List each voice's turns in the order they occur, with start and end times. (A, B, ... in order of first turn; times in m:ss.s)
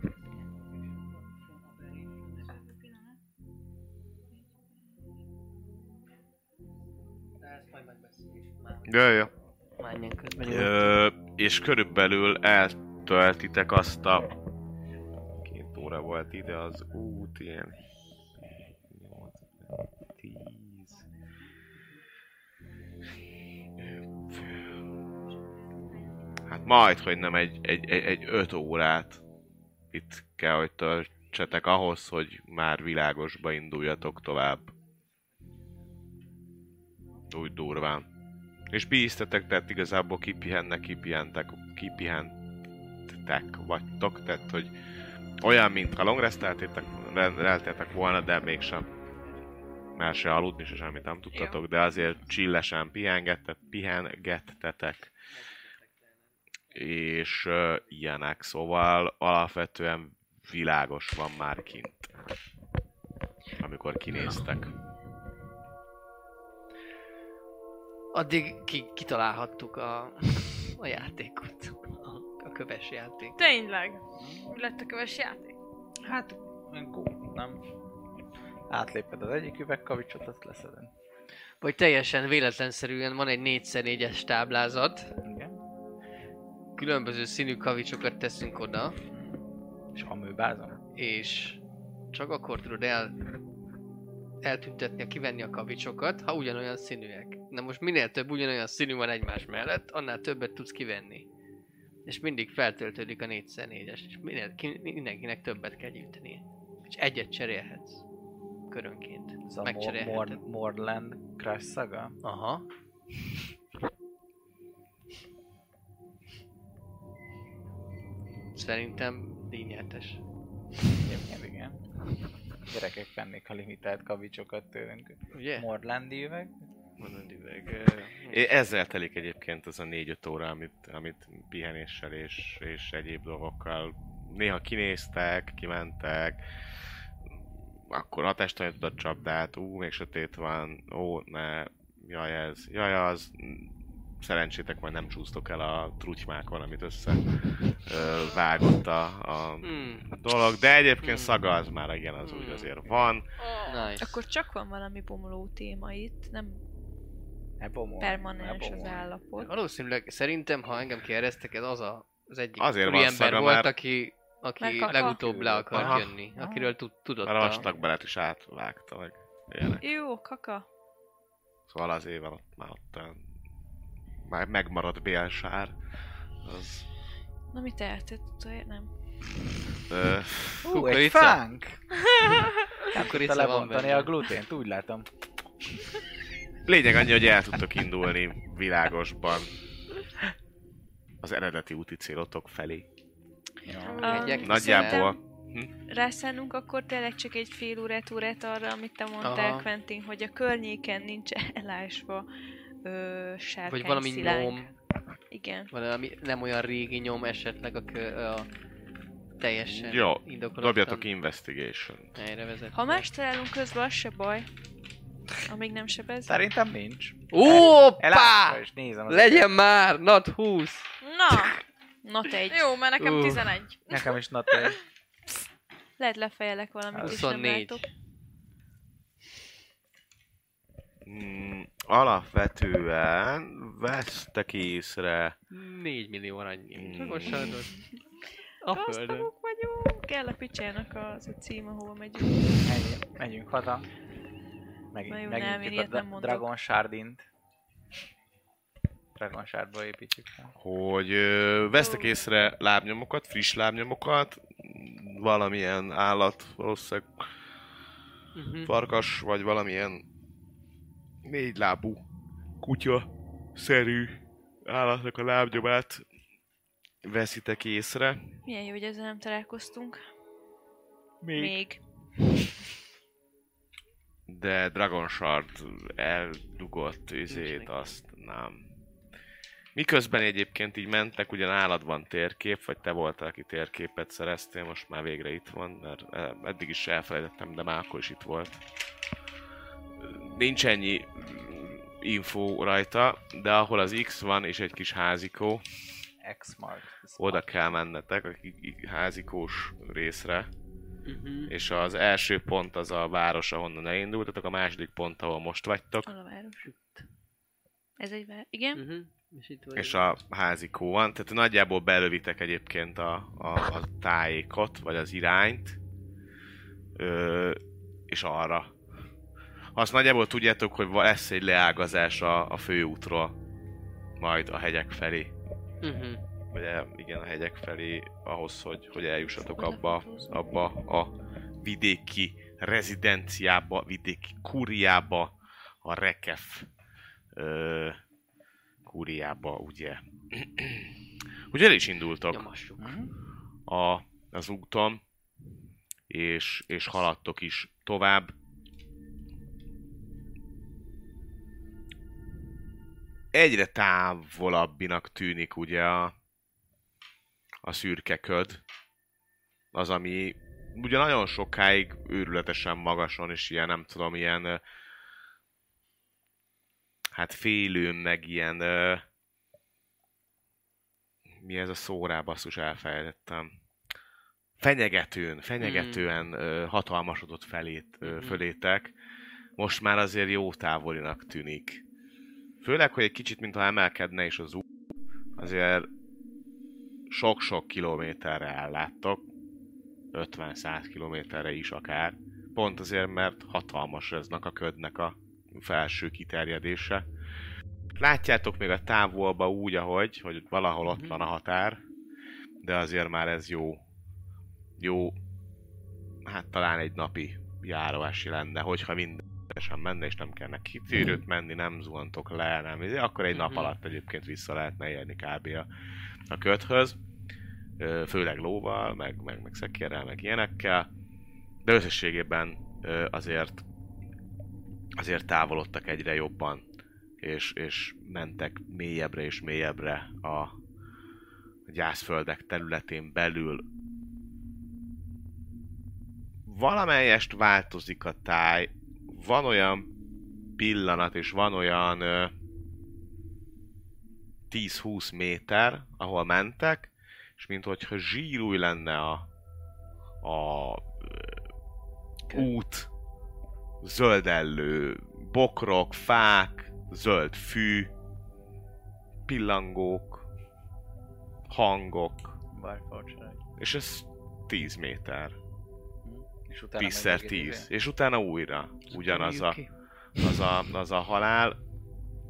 0:01.5-0:02.6 A
0:07.4-0:08.8 A
0:08.8-0:09.3 B
0:09.8-0:11.0 A
0:10.4-0:14.3 B
0:15.4-0:17.8 B
0:18.9-0:21.0 B
0:23.8-0:24.7 B
0:26.5-0:29.2 B
0:29.9-0:34.7 B
0:37.3-0:38.1 B
0:38.7-0:42.3 B
0:43.1-0:44.7 B
0:45.4-0:48.9 B
0:50.0-0:55.1 B
0:51.3-0:51.6 C
0:56.7-1:02.1 B
1:03.6-1:04.7 B
1:08.1-1:13.4 A
1:13.4-1:15.6 C
1:14.2-1:14.4 D
1:16.0-1:17.6 D
1:18.7-1:20.9 D
1:21.6-1:25.2 A
1:25.2-1:25.6 D
1:26.8-1:29.0 A
1:29.1-1:29.4 D
1:30.0-1:30.8 D
1:31.0-1:31.6 A
1:32.1-1:33.2 A
1:34.4-1:41.3 A
1:42.1-1:48.0 A
1:48.7-1:50.4 A
1:49.5-1:52.2 D
1:52.2-1:52.6 A
1:58.5-2:00.2 A
2:01.0-2:01.8 D
2:02.7-2:06.6 D
2:05.3-2:05.7 A
2:07.0-2:08.6 A
2:08.3-2:16.4 B
2:17.9-2:33.2 B
2:29.6-2:30.1 A
2:31.0-2:31.4 A
2:32.2-2:33.1 A
2:33.4-2:33.9 C
2:33.7-2:34.2 A
2:34.0-2:36.6 E
2:37.6-2:39.1 D
2:38.0-2:39.5 E
2:39.4-2:47.7 A
2:42.6-2:43.7 B
2:44.6-2:45.2 E
2:44.8-2:46.7 D
2:45.7-2:46.1 B
2:47.2-2:49.8 B
2:49.8-2:50.7 E
2:51.7-2:53.2 B
2:54.3-2:55.8 B
2:56.4-2:56.8 B
2:57.5-2:58.9 E
2:59.9-3:00.7 B
3:00.6-3:01.8 D
3:00.7-3:01.4 A
3:02.9-3:05.1 D
3:02.9-3:04.2 A
3:06.6-3:09.5 B
3:11.2-3:12.9 B
3:13.6-3:14.0 D
3:13.8-3:14.4 C
3:14.0-3:15.1 A
3:14.0-3:15.2 E
3:14.4-3:15.7 B
3:15.9-3:22.3 E
3:19.2-3:19.7 A
3:22.8-3:24.7 E
3:23.7-3:24.7 A
3:25.3-3:25.7 E
3:25.7-3:28.5 A
3:29.4-3:31.1 A
3:29.6-3:32.2 B
3:32.2-3:33.1 A
3:32.7-3:34.5 E
3:35.5-3:36.3 E
3:36.3-3:39.5 D
3:37.3-3:41.5 A
3:41.0-3:41.6 C
3:42.0-3:42.7 E
3:42.5-3:44.1 C
3:43.0-3:43.6 A
3:43.9-3:44.8 D
3:46.0-3:47.8 E
3:46.9-3:47.2 D
3:47.0-3:47.8 A
3:51.0-3:55.4 B
3:55.5-3:57.8 A
3:56.8-3:57.6 B
3:58.6-3:59.3 A
3:58.7-4:02.5 E
4:02.5-4:03.9 D
4:04.9-4:07.2 D
4:05.1-4:06.5 E
4:09.2-4:10.5 D
4:10.6-4:17.2 B
4:18.4-4:18.7 A
4:18.6-4:20.0 B
4:21.2-4:22.0 B
4:22.6-4:26.0 B
4:27.0-4:28.3 B
4:28.4-4:30.0 E
4:31.2-4:31.6 D
4:31.4-4:31.8 E
4:34.3-4:38.7 B
4:37.3-4:37.9 A
4:39.8-4:48.6 B
4:50.0-4:55.6 B
4:56.2-4:57.5 D
4:57.2-5:00.5 B
5:01.0-5:01.6 A
5:01.5-5:06.1 B
5:06.1-5:06.7 E
5:06.6-5:07.0 A
5:08.0-5:08.8 E
5:08.8-5:10.2 A
5:09.8-5:15.8 B
5:17.0-5:18.7 B
5:19.8-5:23.4 B
5:24.2-5:25.3 B
5:25.8-5:26.2 A
5:26.5-5:36.7 B
5:29.4-5:30.3 E
5:37.3-5:38.0 B
5:38.8-5:40.9 B
5:41.5-5:42.5 B
5:42.3-5:43.0 A
5:42.8-5:43.1 D
5:43.7-5:45.0 B
5:46.1-5:48.3 B
5:53.3-5:56.1 B
5:57.6-5:58.6 B
5:59.7-6:04.6 B
6:07.1-6:09.0 B
6:11.4-6:13.5 B
6:14.6-6:18.9 B
6:15.6-6:16.1 A
6:18.0-6:18.4 A
6:19.6-6:21.8 B
6:22.6-6:24.6 B
6:25.4-6:25.9 B
6:27.1-6:29.2 B
6:30.1-6:37.1 B
6:38.0-6:41.8 B
6:40.8-6:41.2 A
6:42.6-6:43.8 B
6:44.8-6:45.2 B
6:46.2-6:55.7 B
6:53.3-6:53.7 A
6:56.3-6:57.0 B
6:57.8-7:00.9 B
7:01.6-7:03.6 B
7:05.0-7:06.6 B
7:07.2-7:10.6 B
7:11.7-7:13.6 B
7:16.5-7:19.9 B
7:20.6-7:22.3 B
7:24.5-7:29.3 B
7:30.2-7:31.4 B
7:32.3-7:32.9 B
7:33.8-7:37.9 B
7:39.3-7:40.2 B
7:41.5-7:42.4 B
7:42.5-7:43.4 D
7:43.6-7:45.4 B
7:46.0-7:47.7 D
7:46.8-7:49.6 B
7:48.9-7:50.4 A
7:50.2-7:51.6 B